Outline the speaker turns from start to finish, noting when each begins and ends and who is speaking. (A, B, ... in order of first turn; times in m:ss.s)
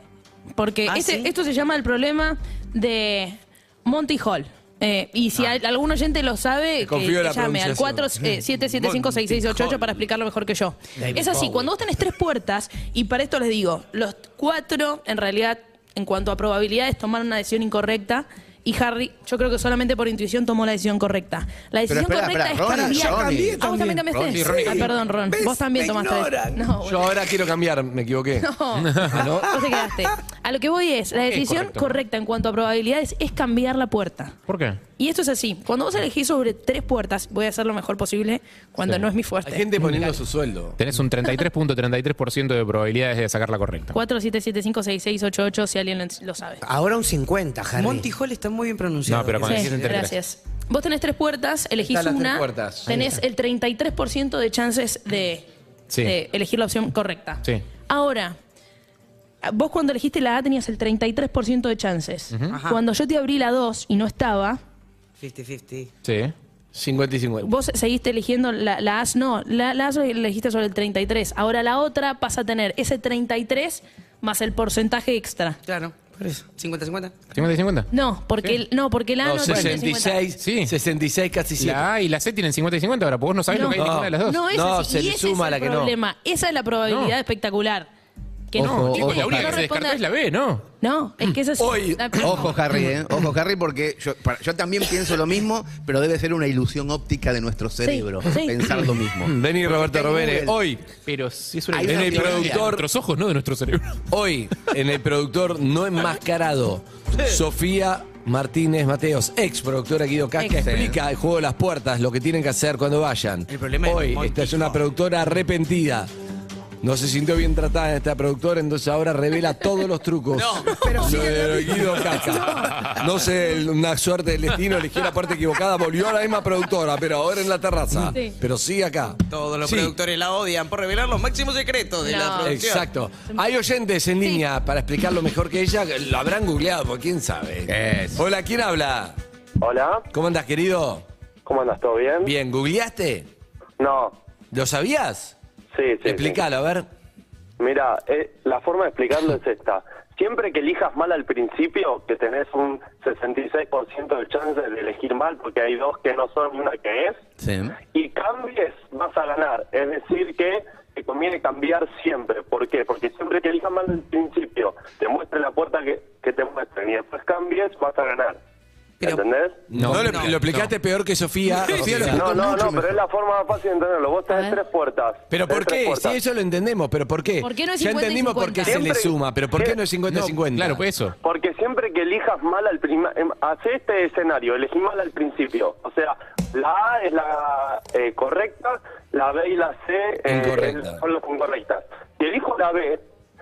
0:00.6-0:27.1 A
0:00.9-0:01.3 B
0:06.8-0:10.0 C
0:11.0-0:11.7 D
0:21.9-0:24.7 E
0:22.6-0:26.7 D
0:24.3-0:24.8 F
0:26.8-0:28.5 C
0:28.4-0:34.4 A
0:29.0-0:29.5 C
0:29.3-0:30.1 D
0:31.3-0:31.9 F
0:34.5-0:34.8 F
0:35.0-0:39.7 A
0:39.4-0:40.8 C
0:40.8-0:43.9 F
0:43.9-0:46.6 A
0:46.6-0:48.1 D
0:47.8-0:50.1 B
0:49.1-0:50.1 F
0:49.4-0:55.4 A
0:51.8-0:53.1 C
0:52.9-0:53.2 D
0:55.9-0:56.1 F
0:56.0-0:58.4 A
0:59.4-1:04.6 A
1:02.3-1:02.6 F
1:02.5-1:02.8 B
1:05.2-1:05.9 B
1:06.0-1:06.3 F
1:06.7-1:07.5 C
1:07.4-1:15.6 A
1:15.6-1:17.2 B
1:16.2-1:16.4 D
1:17.3-1:17.9 F
1:17.9-1:20.2 A
1:19.2-1:21.9 C
1:20.4-1:20.7 F
1:21.6-1:24.4 F
1:23.5-1:27.9 A
1:23.7-1:26.0 C
1:26.9-1:27.1 F
1:28.5-1:30.0 A
1:28.6-1:29.6 E
1:28.6-1:30.6 F
1:30.8-1:32.5 A
1:31.6-1:32.6 C
1:32.2-1:40.6 E
1:37.8-1:38.6 A
1:39.2-1:40.9 C
1:41.0-1:44.0 F
1:41.7-1:42.7 E
1:41.8-1:42.8 C
1:44.1-1:56.1 C
1:50.5-1:51.0 E
1:53.5-1:54.8 B
1:56.8-2:09.9 C
2:00.3-2:00.8 B
2:00.8-2:01.3 A
2:00.8-2:02.5 D
2:02.2-2:02.9 A
2:08.0-2:08.3 A
2:09.3-2:12.9 B
2:12.0-2:12.6 A
2:12.4-2:19.2 C
2:17.7-2:18.2 E
2:19.6-2:20.0 G
2:20.1-2:21.0 C
2:21.4-2:22.3 G
2:22.2-2:23.3 C
2:23.8-2:24.1 G
2:24.5-2:25.3 C
2:25.7-2:26.4 G
2:26.0-2:26.9 C
2:27.6-2:37.2 G
2:37.4-2:37.8 E
2:37.9-2:48.4 G
2:49.0-2:49.2 B
2:49.0-2:49.6 G
2:49.7-2:52.3 C
2:49.7-2:50.7 F
2:49.9-2:50.4 B
2:51.8-2:52.9 E
2:51.8-2:52.1 F
2:52.0-2:56.2 G
2:54.3-2:54.6 A
2:55.3-3:00.8 C
2:57.4-2:58.9 A
2:58.6-2:59.8 G
3:00.1-3:01.2 F
3:01.2-3:13.0 G
3:10.2-3:11.0 C